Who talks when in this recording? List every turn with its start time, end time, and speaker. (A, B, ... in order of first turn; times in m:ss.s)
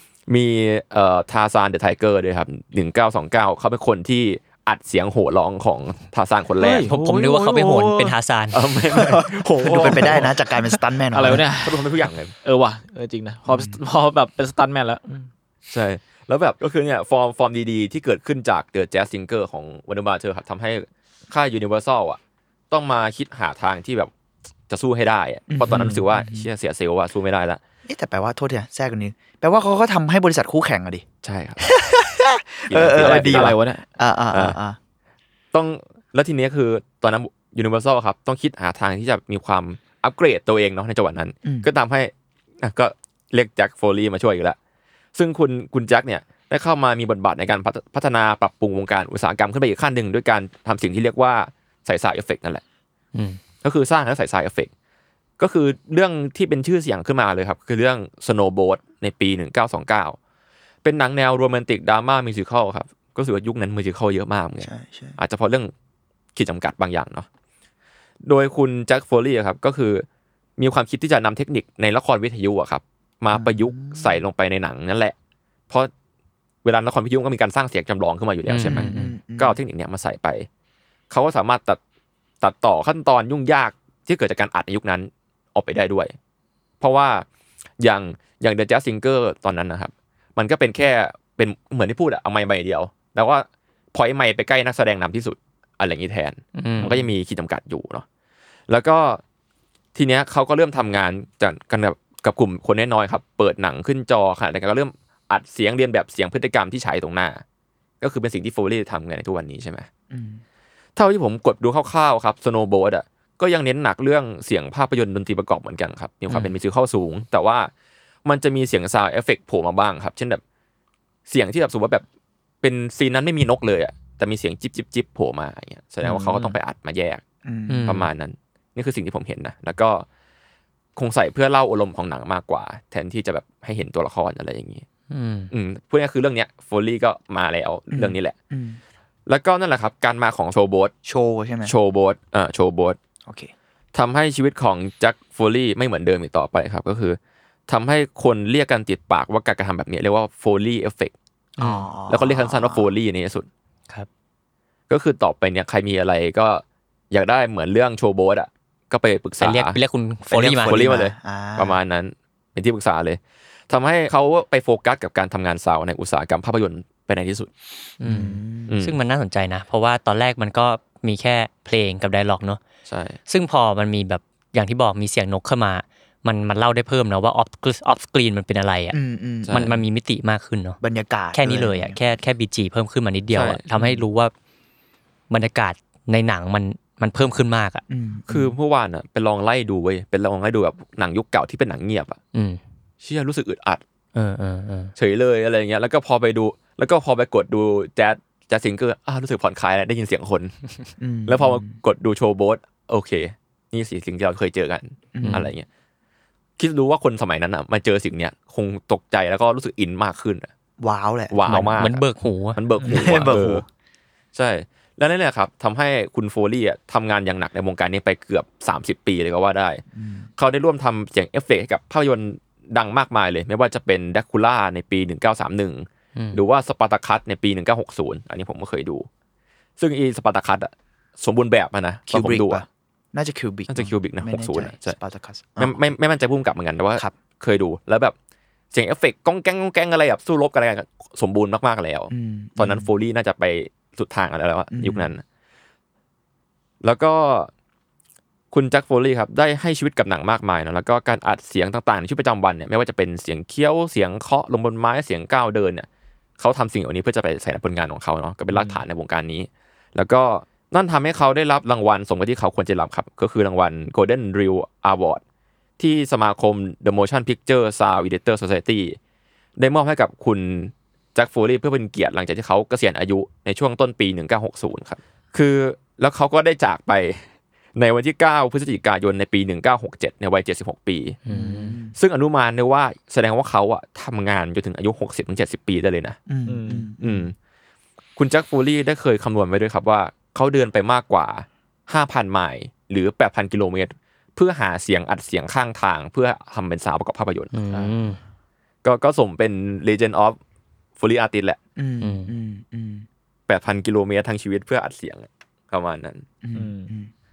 0:00.3-0:06.9 A
0:06.6-0:08.2 B
0:06.9-0:08.6 C
0:08.5-0:10.3 A
0:09.5-0:15.3 B
0:09.6-0:11.4 D
0:11.2-0:12.3 A
0:13.5-0:13.8 D
0:15.7-0:22.2 A
0:22.7-0:24.1 A
0:24.7-0:27.6 A
0:25.5-0:26.5 D
0:25.6-0:26.0 B
0:27.8-0:31.0 D
0:31.2-0:31.7 A
0:31.6-0:34.8 D
0:32.7-0:33.6 A
0:32.8-0:33.8 B
0:34.3-0:34.6 A
0:35.5-0:42.1 A
0:42.6-0:44.6 A
0:45.1-0:52.6 A
0:53.1-0:53.4 C
0:53.6-0:54.7 A
0:55.4-1:00.2 A
1:00.8-1:05.7 A
1:04.6-1:05.2 D
1:06.4-1:07.3 A
1:08.2-1:10.0 A
1:10.6-1:15.1 A
1:13.3-1:14.2 D
1:16.6-1:20.5 A
1:18.5-1:19.1 C
1:18.6-1:19.6 D
1:21.1-1:21.8 A
1:22.4-1:26.1 A
1:26.8-1:27.2 A
1:27.8-1:38.0 A
1:36.6-1:36.9 C
1:38.7-1:39.2 A
1:39.9-1:47.4 A
1:48.0-1:49.9 A
1:50.1-1:50.4 D
1:51.0-1:57.7 A
1:58.2-2:00.4 A
2:01.3-2:02.0 A
2:02.6-2:07.2 A
2:06.1-2:06.4 B
2:07.4-2:08.0 D
2:07.7-2:08.0 C
2:07.8-2:10.0 A
2:11.0-2:14.8 A
2:15.1-2:15.5 C
2:15.5-2:18.3 A
2:17.9-2:18.8 D
2:19.3-2:20.9 A
2:21.0-2:21.7 D
2:21.6-2:23.0 A
2:23.2-2:23.5 D
2:23.9-2:31.1 A
2:31.6-2:31.9 C
2:31.6-2:32.9 D
2:32.1-2:33.5 A
2:34.9-2:39.8 A
2:39.4-2:40.8 C
2:40.3-2:41.8 D
2:40.6-2:47.5 A
2:48.0-2:52.6 C
2:48.0-2:48.7 D
2:48.7-2:49.0 A
2:52.9-2:53.2 A
2:53.3-2:59.0 C
2:58.9-2:59.8 D
2:59.4-2:59.7 A
2:59.5-3:00.8 C
3:00.8-3:02.0 D
3:01.3-3:04.3 C
3:03.3-3:03.6 A
3:03.8-3:04.0 D
3:05.3-3:07.8 C
3:07.9-3:08.6 D
3:08.3-3:12.2 A
3:12.3-3:12.6 C
3:13.0-3:13.8 A
3:14.1-3:14.9 C
3:15.0-3:20.5 A
3:21.0-3:21.8 D
3:21.2-3:25.6 A
3:25.1-3:25.5 D
3:25.2-3:25.5 C
3:26.6-3:30.5 A
3:30.8-3:31.4 D
3:31.3-3:32.0 A
3:31.4-3:32.6 C
3:32.5-3:33.6 A
3:32.8-3:33.1 B
3:32.8-3:33.6 D
3:34.3-3:39.8 A
3:39.9-3:40.3 D
3:40.4-3:49.1 A
3:49.8-3:52.6 A
3:52.1-3:55.8 D
3:53.7-3:55.0 A
3:55.6-3:58.1 A
3:58.7-4:05.2 A
4:02.1-4:02.9 D
4:04.7-4:05.1 D
4:06.8-4:07.5 A
4:08.5-4:15.9 A
4:16.4-4:25.2 A
4:18.5-4:18.8 B
4:25.8-4:29.0 A
4:29.6-4:41.2 A
4:41.2-4:41.8 C
4:41.3-4:41.9 D
4:42.0-4:46.2 A
4:46.3-4:47.3 D
4:46.5-4:46.9 B
4:47.0-4:47.3 A
4:48.2-4:57.5 A
4:57.5-4:58.2 C
4:58.8-5:00.4 A
5:01.0-5:01.6 A
5:01.8-5:03.0 D
5:02.0-5:02.3 C
5:03.5-5:06.2 A
5:06.4-5:07.1 D
5:06.5-5:06.9 B